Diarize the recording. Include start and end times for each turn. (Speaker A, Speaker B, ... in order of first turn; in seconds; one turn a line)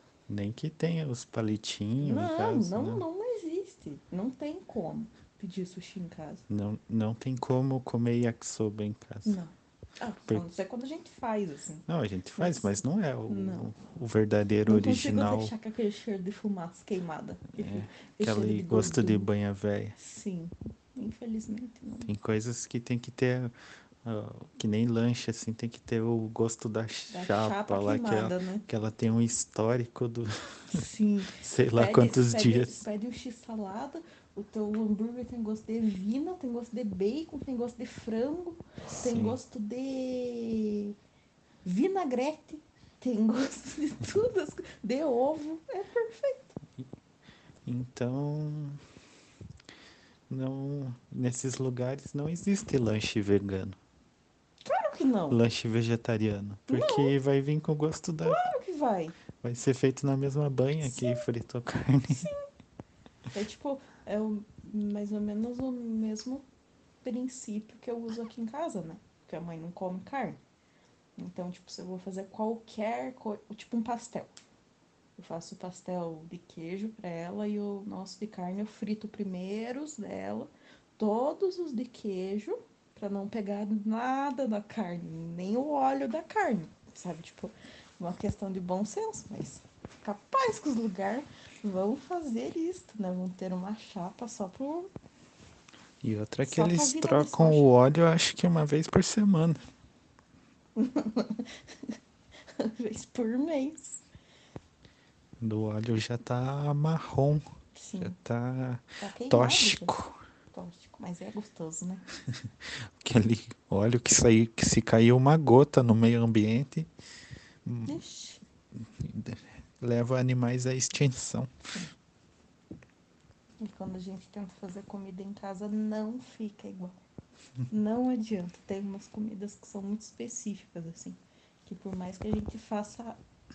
Speaker A: 0.3-3.0
Speaker B: 2.0-6.5
Speaker A: 6.5-9.4
Speaker B: 9.2-13.7
Speaker A: 11.9-15.5
Speaker B: 14.7-19.3
Speaker A: 17.6-19.9
Speaker B: 19.9-22.1
Speaker A: 22.0-23.5
Speaker A: 24.0-30.8
Speaker B: 27.1-28.6
Speaker B: 30.7-41.0
Speaker A: 31.4-32.8
Speaker A: 39.0-39.4
Speaker B: 41.6-46.5
Speaker A: 47.6-48.8
Speaker A: 50.3-53.8
Speaker B: 54.6-55.4
Speaker A: 55.3-58.5
Speaker B: 56.7-57.1
Speaker B: 58.2-59.1
Speaker A: 59.4-62.3
Speaker B: 60.8-61.2
Speaker B: 62.1-62.5
Speaker B: 63.3-66.4
Speaker B: 67.0-70.4
Speaker B: 71.2-74.3
Speaker B: 75.2-94.9
Speaker A: 96.0-99.6
Speaker B: 96.4-97.7
Speaker B: 100.8-102.0
Speaker B: 102.5-104.0
Speaker A: 105.4-107.5
Speaker B: 107.7-108.2
Speaker A: 108.0-110.2
Speaker B: 109.0-110.0
Speaker B: 110.5-112.0
Speaker A: 112.3-116.9
Speaker A: 117.6-118.0
Speaker B: 117.8-118.4
Speaker A: 118.8-121.5
Speaker B: 123.6-127.0
Speaker B: 127.7-133.2